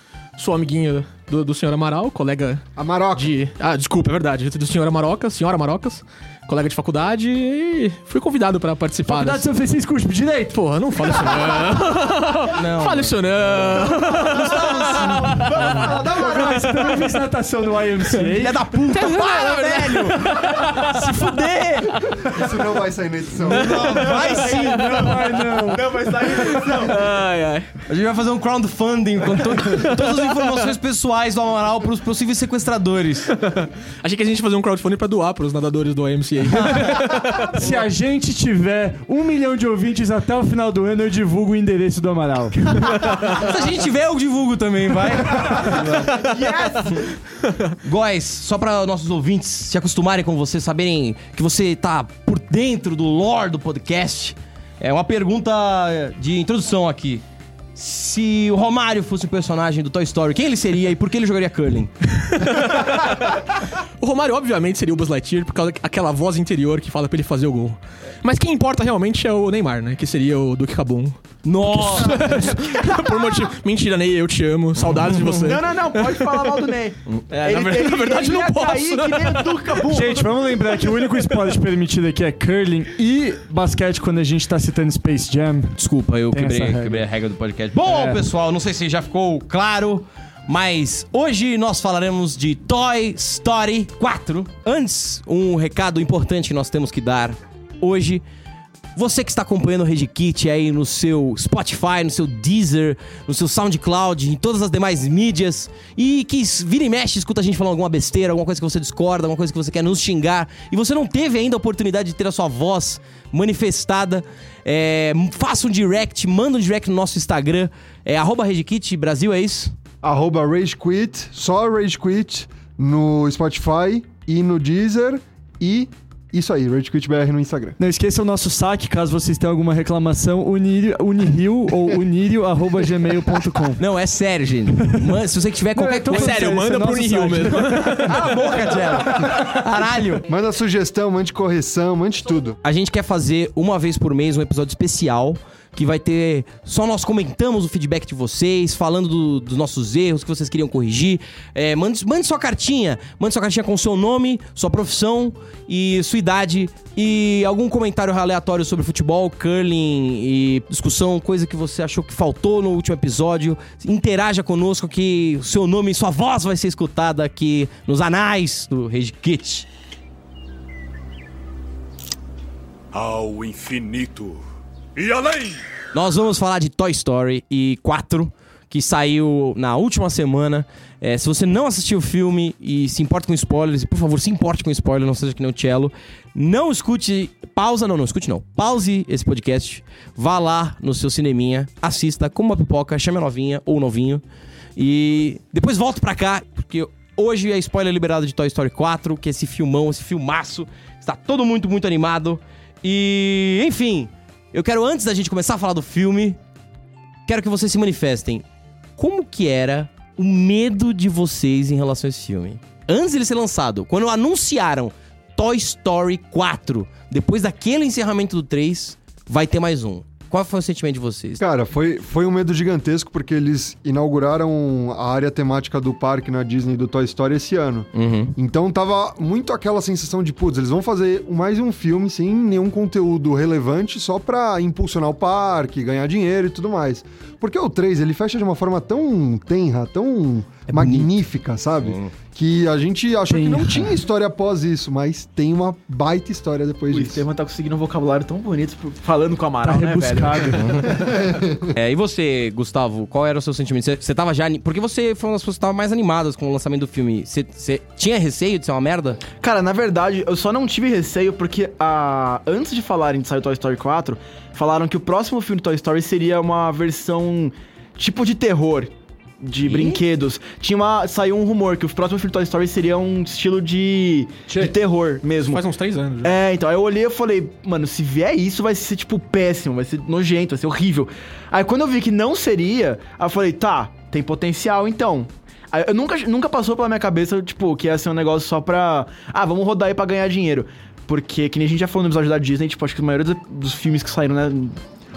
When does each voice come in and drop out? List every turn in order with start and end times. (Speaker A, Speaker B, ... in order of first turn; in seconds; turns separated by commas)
Speaker A: 0.4-2.6, Speaker B: 2.8-3.3, Speaker A: 3.1-9.4, Speaker C: 9.1-10.6, Speaker A: 10.5-15.7, Speaker D: 12.5-14.8, Speaker B: 14.3-16.6, Speaker E: 15.1-16.8, Speaker C: 15.5-19.6, Speaker D: 18.3-22.0, Speaker A: 19.1-21.9, Speaker B: 22.2-24.0, Speaker C: 23.5-26.2, Speaker D: 23.5-25.1, Speaker E: 23.7-27.1, Speaker A: 26.2-27.7, Speaker D: 27.9-33.3, Speaker A: 29.7-30.5, Speaker A: 33.3-37.6, Speaker C: 36.9-42.9, Speaker D: 43.2-46.2, Speaker E: 45.6-47.1, Speaker D: 47.8-57.2, Speaker D: 57.7-61.9, Speaker A: 62.1-71.2, Speaker D: 71.4-72.6, Speaker A: 71.7-76.8, Speaker D: 74.9-75.2, Speaker E: 75.2-80.3, Speaker A: 77.3-79.8, Speaker C: 79.9-85.8, Speaker D: 85.8-98.2, Speaker C: 86.3-87.1, Speaker C: 87.8-88.2, Speaker D: 98.9-119.7, Speaker B: 120.0-127.8, Speaker C: 127.8-133.8, Speaker D: 133.8-136.4, Speaker C: 135.7-138.2, Speaker A: 136.1-138.3, Speaker D: 138.0-140.2, Speaker B: 140.3-142.6, Speaker D: 142.6-169.7, Speaker F: 172.9-174.4, Speaker F: 174.9-175.6, Speaker D: 175.9-194.2, Speaker D: 194.8-206.4, Speaker D: 207.2-208.4, Speaker D: 209.0-221.4, Speaker B: 221.4-247.2, Speaker D: 227.9-228.3, Speaker D: 240.7-241.1, Speaker D: 241.9-242.1, Speaker C: 243.3-244.0, Speaker E: 246.9-250.8, Speaker C: 249.6-250.8, Speaker D: 250.6-251.0, Speaker B: 251.0-251.7, Speaker D: 251.7-259.2, Speaker E: 259.4-275.6, Speaker D: 269.6-270.0, Speaker A: 275.4-276.3, Speaker E: 276.2-294.8